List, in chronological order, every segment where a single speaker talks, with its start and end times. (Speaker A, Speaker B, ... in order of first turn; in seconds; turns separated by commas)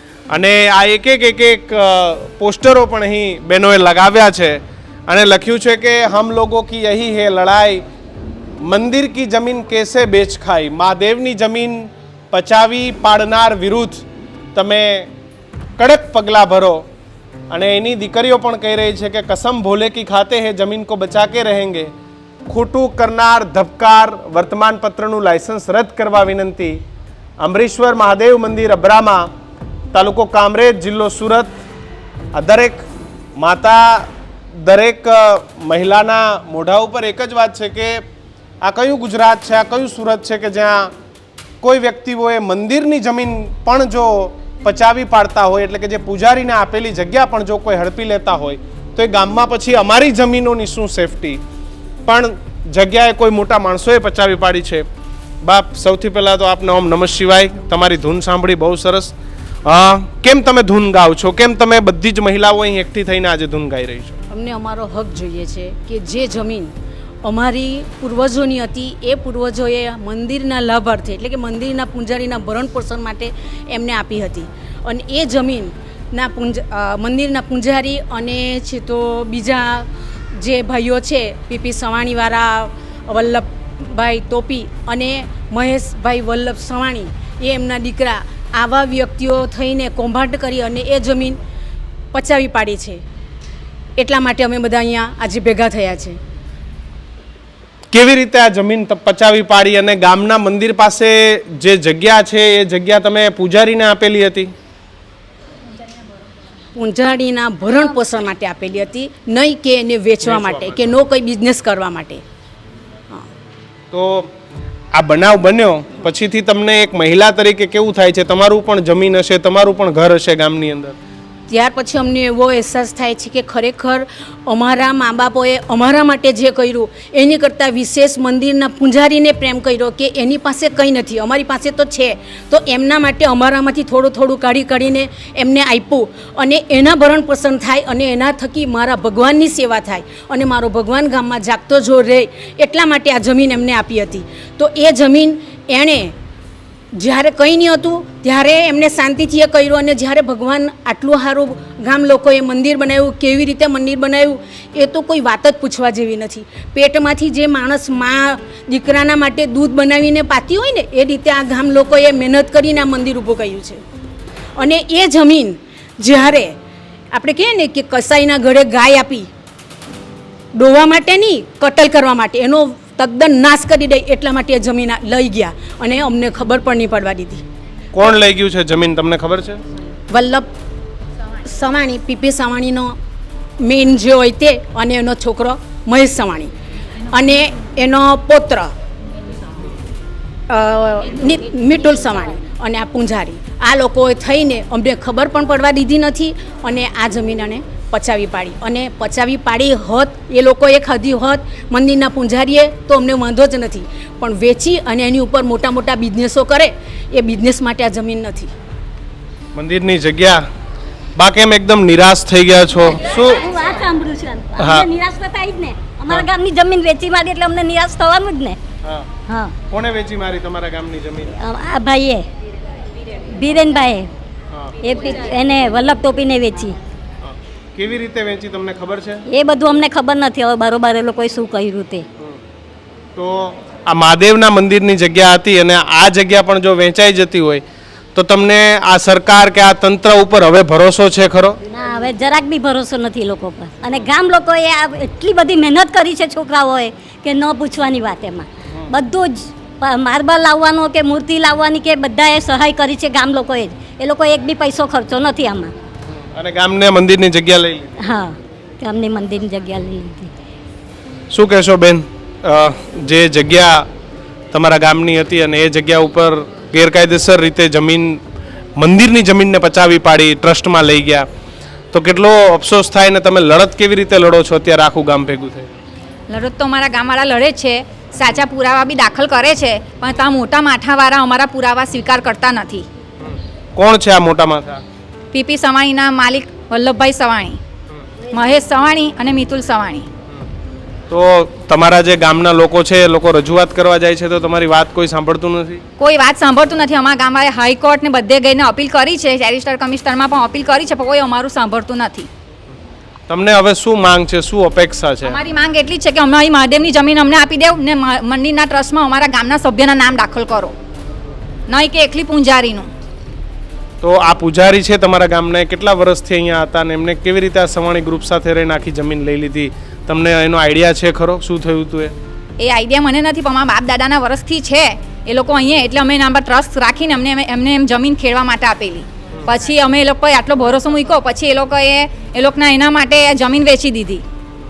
Speaker A: 0.3-7.8, Speaker A: 8.6-15.1, Speaker A: 15.8-16.8, Speaker A: 17.5-21.9, Speaker A: 22.5-26.8, Speaker A: 27.4-29.3, Speaker A: 29.9-31.6, Speaker A: 32.3-32.9, Speaker A: 33.4-38.0, Speaker A: 38.6-40.9, Speaker A: 41.6-51.4, Speaker A: 52.0-54.9, Speaker A: 55.4-59.1, Speaker A: 59.6-64.2, Speaker B: 64.3-66.7, Speaker B: 67.2-91.4, Speaker B: 92.1-93.0, Speaker B: 94.0-96.2, Speaker A: 97.9-104.5, Speaker B: 106.8-112.2, Speaker A: 110.2-111.0, Speaker A: 113.9-114.3, Speaker A: 114.9-121.0, Speaker B: 121.5-146.1, Speaker B: 146.9-163.8, Speaker B: 164.6-166.5, Speaker B: 167.1-169.3, Speaker B: 170.6-177.4, Speaker A: 177.9-179.6, Speaker B: 180.1-180.5, Speaker B: 181.4-182.9, Speaker B: 183.6-186.5, Speaker B: 187.1-188.7, Speaker B: 190.5-208.5, Speaker A: 209.5-210.4, Speaker A: 211.2-213.4, Speaker C: 213.2-218.6, Speaker A: 214.6-214.9, Speaker C: 219.3-219.5, Speaker A: 219.7-221.3, Speaker C: 221.4-222.3, Speaker C: 223.3-224.1, Speaker C: 224.8-226.8, Speaker A: 227.2-229.2, Speaker C: 229.3-232.1, Speaker A: 233.2-237.6, Speaker A: 238.1-241.6, Speaker C: 241.7-255.7, Speaker A: 256.2-258.0, Speaker C: 258.0-260.3, Speaker A: 261.3-263.9, Speaker A: 264.5-268.2, Speaker A: 268.8-271.3, Speaker A: 271.9-275.7, Speaker D: 276.3-282.9, Speaker A: 283.2-284.8, Speaker D: 285.3-287.6, Speaker D: 288.3-290.1, Speaker A: 291.1-295.8, Speaker D: 296.0-302.3, Speaker A: 303.3-305.4, Speaker D: 305.2-310.7, Speaker D: 311.7-312.9, Speaker A: 314.0-322.1, Speaker D: 322.6-334.2